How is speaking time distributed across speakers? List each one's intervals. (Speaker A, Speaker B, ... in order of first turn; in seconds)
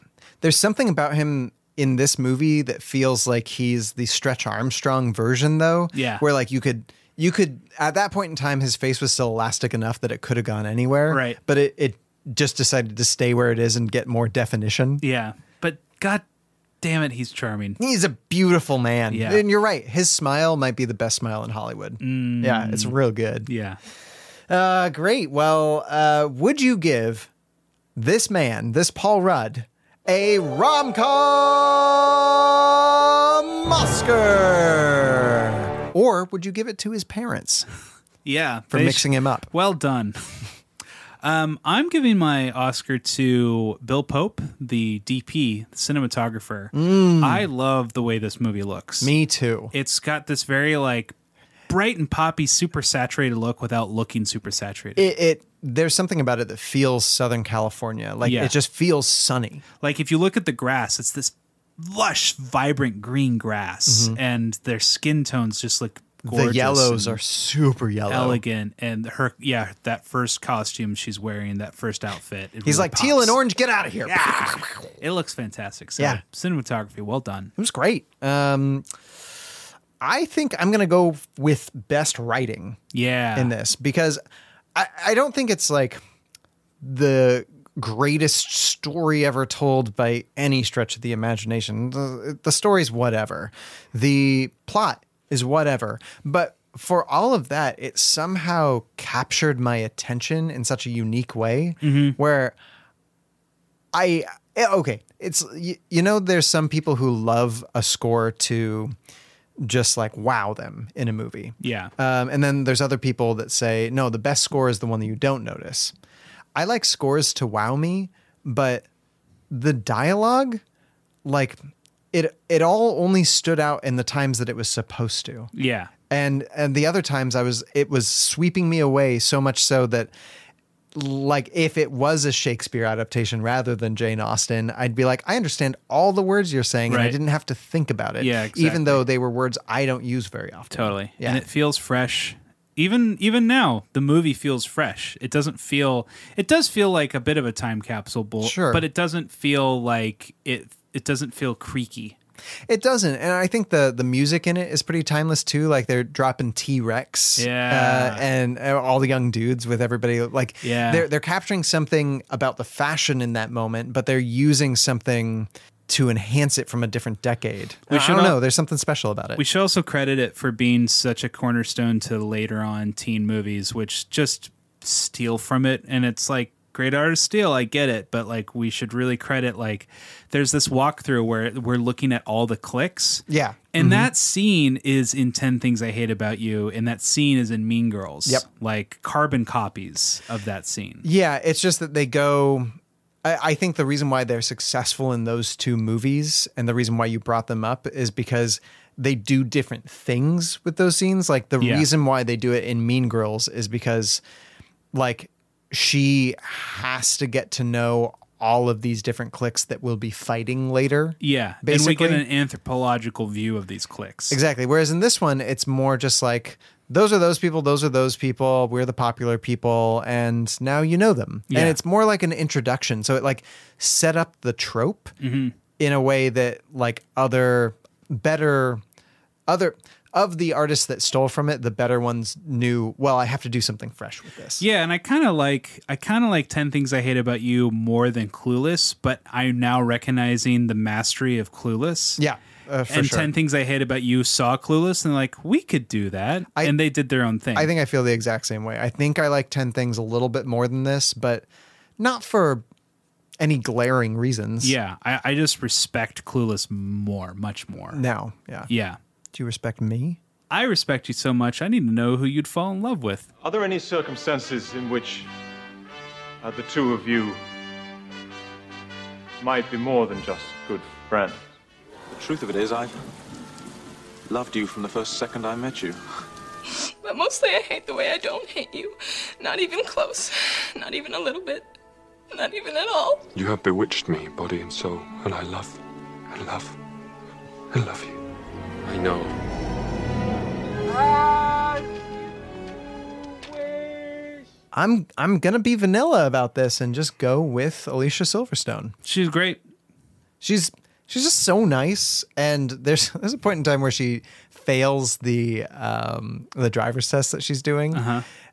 Speaker A: 0.4-15.0, 17.8-23.5, 24.5-27.3, 28.0-37.7, 38.7-39.5, 46.7-47.5, 49.0-49.7, 55.0-59.6, 63.9-64.2, 66.2-68.4, 72.7-75.0, 77.6-78.8, 80.0-82.8, 83.3-84.2, 84.8-86.0, 86.8-102.6, 103.9-109.0, 109.6-115.9, 116.5-118.9, 119.5-120.6, 121.2-121.6, 122.1-125.5, 126.1-130.1, 130.9-141.4, 148.4-148.8, 152.7-169.4, 183.3-184.1, 191.0-204.2, 204.9-212.2, 214.3-225.2, 225.8-228.8, 229.5-234.7, 242.2-243.3, 247.6-251.5, 252.0-252.7, 253.4-254.8, 257.9-258.7, 259.3-260.2, 294.7-298.9, 300.4-308.1
Speaker B: 5.9-6.2, 11.1-11.4, 15.0-16.2, 16.8-17.8, 19.1-19.4, 22.0-22.9, 23.5-23.8, 38.2-40.5, 41.2-49.1, 49.7-51.1, 51.7-55.1, 58.2-58.5, 59.8-67.2, 68.1-73.4, 75.0-77.5, 82.9-83.5, 101.8-102.2, 111.6-111.9, 125.5-125.9, 136.9-137.2, 138.2-139.0, 140.7-152.2, 157.4-158.2, 160.6-161.1, 167.9-168.4, 169.4-191.1, 201.6-201.9, 211.2-214.4, 221.5-221.8, 225.2-225.5, 234.6-242.2, 242.9-247.7, 254.6-258.0, 258.7-259.0, 260.5-263.3, 299.1-299.6, 307.9-308.3
Speaker C: 263.4-265.3, 266.4-267.4, 269.4-271.4
Speaker D: 272.1-272.9, 274.3-276.0
Speaker E: 276.9-281.7, 282.3-283.3
Speaker F: 283.4-286.8, 287.7-288.2, 288.8-289.3